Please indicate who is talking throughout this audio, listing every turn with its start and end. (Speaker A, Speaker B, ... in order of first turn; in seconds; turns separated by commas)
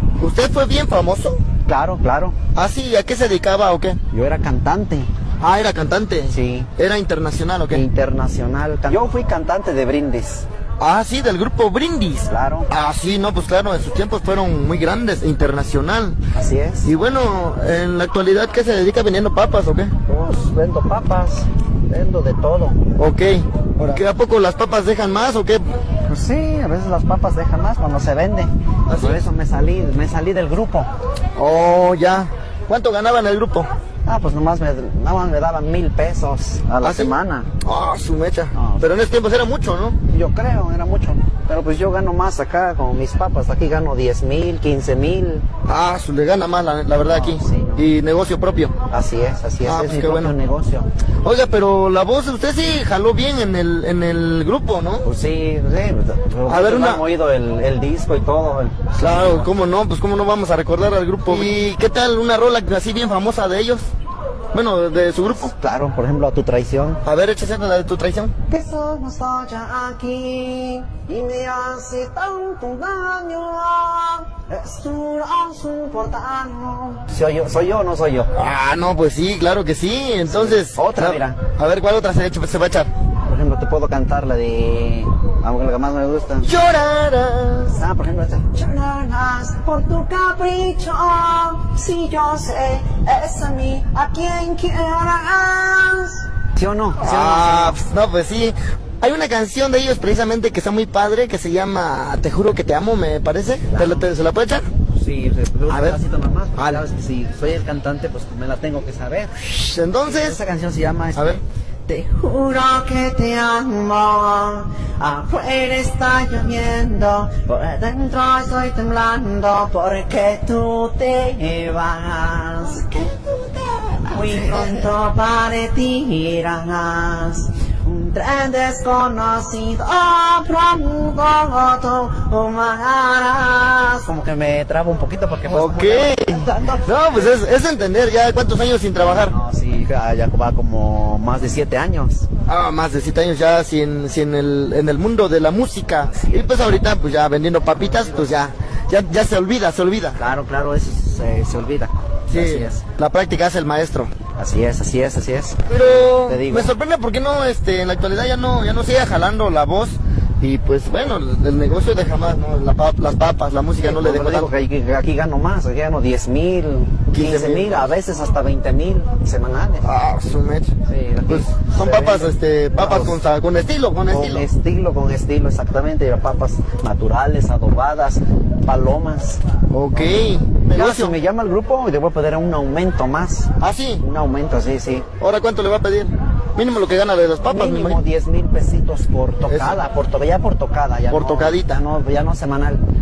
Speaker A: 0.2-1.4, Speaker B: 1.6-2.4, Speaker A: 2.5-4.0, Speaker B: 4.1-5.1, Speaker A: 5.4-7.8, Speaker B: 6.3-6.7, Speaker B: 7.7-10.4, Speaker A: 10.8-16.2, Speaker B: 12.3-12.7, Speaker B: 16.3-16.9, Speaker A: 16.8-19.9, Speaker B: 20.1-22.8, Speaker A: 23.0-25.6, Speaker B: 26.1-30.9, Speaker A: 28.9-29.2, Speaker A: 31.4-33.7, Speaker B: 34.0-37.5, Speaker A: 36.8-40.0, Speaker B: 38.5-38.8, Speaker B: 40.1-45.5, Speaker A: 45.6-48.7, Speaker B: 47.0-47.9, Speaker B: 48.9-50.9, Speaker A: 49.6-50.3, Speaker A: 51.2-55.0, Speaker B: 55.0-59.5, Speaker A: 56.5-57.0, Speaker A: 59.0-63.9, Speaker A: 64.5-65.5, Speaker B: 65.3-67.0, Speaker A: 67.0-68.3, Speaker B: 68.5-78.3, Speaker A: 78.3-82.9, Speaker B: 80.2-81.4, Speaker B: 83.2-86.5, Speaker A: 86.4-87.8, Speaker B: 87.7-97.8, Speaker A: 97.0-104.7, Speaker B: 103.7-104.1, Speaker B: 104.8-109.4, Speaker A: 105.7-106.0, Speaker A: 106.6-106.8, Speaker A: 109.3-110.4, Speaker B: 110.0-122.9, Speaker A: 111.1-111.4, Speaker A: 122.8-124.8, Speaker B: 124.0-137.3, Speaker A: 135.5-139.3, Speaker B: 139.0-142.3, Speaker A: 142.5-150.2, Speaker B: 147.8-148.3, Speaker B: 150.2-152.8, Speaker A: 152.3-154.1, Speaker B: 154.4-156.7, Speaker A: 155.7-164.5, Speaker B: 163.8-169.9, Speaker A: 167.1-167.9, Speaker A: 169.8-170.7, Speaker B: 170.8-173.2, Speaker A: 171.3-174.4, Speaker B: 174.1-179.4, Speaker A: 179.7-181.2, Speaker B: 179.9-185.1, Speaker A: 183.6-184.0, Speaker A: 185.2-188.0, Speaker B: 187.4-192.8, Speaker A: 189.5-189.8, Speaker A: 191.1-191.8